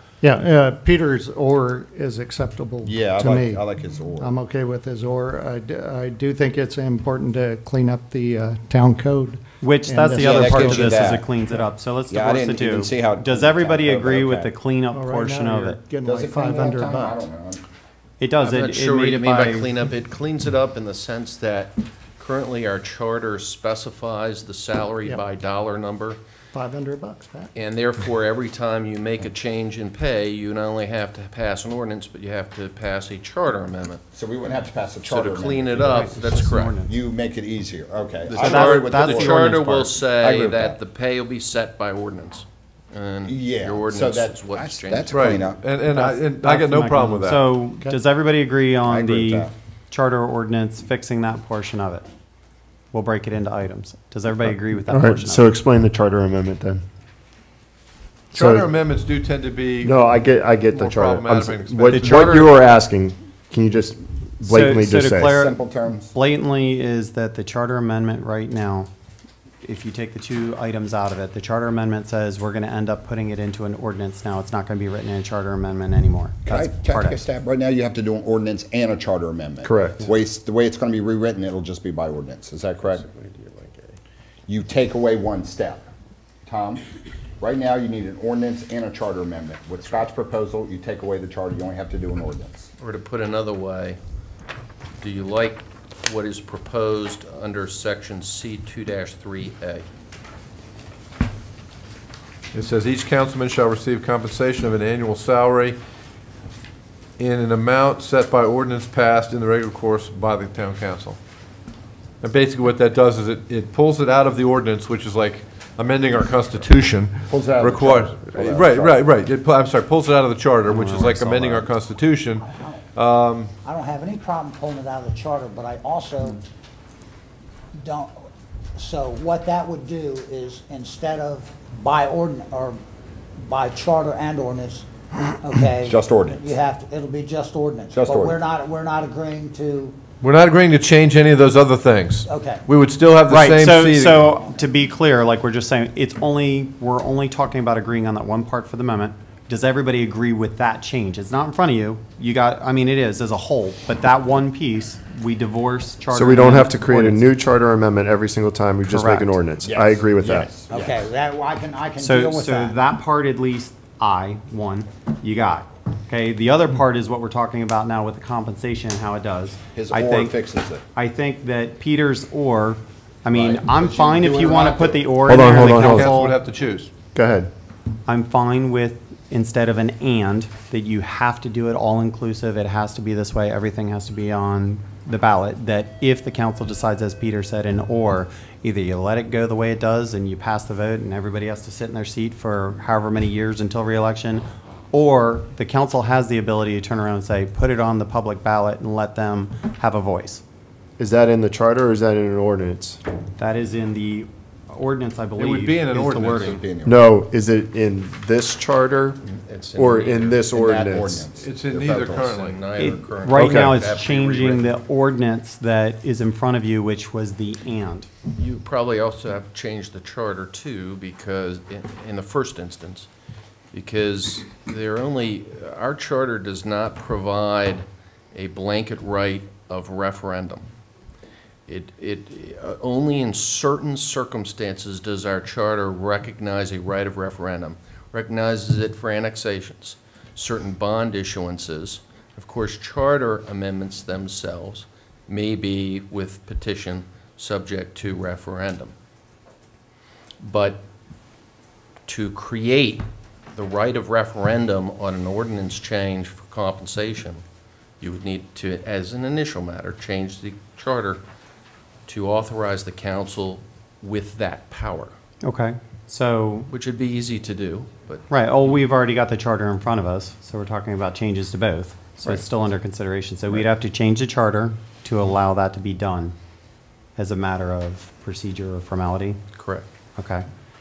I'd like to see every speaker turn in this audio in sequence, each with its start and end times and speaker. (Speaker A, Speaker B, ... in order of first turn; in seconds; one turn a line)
Speaker A: 0.2-11.6
Speaker B: 2.8-4.3
Speaker C: 9.6-15.8
Speaker B: 10.1-11.3
Speaker B: 12.1-14.5
Speaker A: 14.9-17.2
Speaker B: 16.0-17.6
Speaker C: 18.2-19.7
Speaker D: 18.4-26.2
Speaker A: 26.5-27.5
Speaker D: 27.6-34.0
Speaker B: 34.1-39.5
Speaker D: 35.0-36.8
Speaker C: 35.7-36.9
Speaker D: 38.3-45.5
Speaker C: 38.4-40.0
Speaker B: 40.2-40.8
Speaker B: 43.2-45.6
Speaker E: 45.1-47.5
Speaker C: 45.9-52.0
Speaker B: 48.8-49.5
Speaker C: 52.9-55.5
Speaker F: 54.5-56.8
Speaker F: 58.3-58.7
Speaker E: 58.3-60.0
Speaker F: 59.8-65.3
Speaker E: 60.7-62.5
Speaker C: 61.9-62.5
Speaker C: 64.4-68.9
Speaker B: 65.3-66.1
Speaker C: 69.6-77.2
Speaker B: 76.4-83.0
Speaker F: 79.6-80.1
Speaker E: 83.1-83.9
Speaker B: 84.5-85.8
Speaker B: 86.5-86.8
Speaker B: 87.4-92.7
Speaker D: 92.8-94.0
Speaker D: 95.0-99.8
Speaker E: 102.5-105.8
Speaker E: 107.2-111.2
Speaker E: 112.2-123.5
Speaker B: 117.3-119.0
Speaker C: 120.7-121.7
Speaker G: 122.4-122.8
Speaker G: 123.6-126.4
Speaker G: 127.7-128.1
Speaker G: 128.7-132.8
Speaker G: 133.4-140.0
Speaker B: 135.8-136.5
Speaker B: 137.9-138.4
Speaker E: 140.2-144.3
Speaker G: 142.2-142.7
Speaker C: 143.3-157.3
Speaker F: 156.1-160.5
Speaker C: 158.8-159.4
Speaker B: 159.6-161.0
Speaker G: 160.7-162.8
Speaker C: 162.0-170.3
Speaker B: 169.7-170.8
Speaker C: 170.9-176.4
Speaker B: 173.3-175.4
Speaker F: 175.3-176.1
Speaker E: 175.3-176.9
Speaker F: 177.1-177.5
Speaker C: 178.1-200.4
Speaker F: 201.0-203.0
Speaker C: 203.4-206.5
Speaker E: 205.4-206.6
Speaker B: 205.9-207.1
Speaker F: 206.8-209.2
Speaker D: 209.2-210.4
Speaker F: 209.7-211.3
Speaker B: 210.5-212.4
Speaker E: 211.3-212.7
Speaker D: 211.8-214.7
Speaker C: 212.7-218.1
Speaker F: 213.3-213.7
Speaker D: 218.3-223.1
Speaker D: 223.7-230.7
Speaker D: 231.7-248.9
Speaker D: 250.4-250.8
Speaker D: 252.1-257.4
Speaker D: 258.0-261.2
Speaker D: 262.1-265.1
Speaker C: 265.4-266.7
Speaker D: 266.7-268.8
Speaker C: 268.3-276.3
Speaker C: 277.1-279.4
Speaker D: 279.6-279.9
Speaker C: 280.2-280.4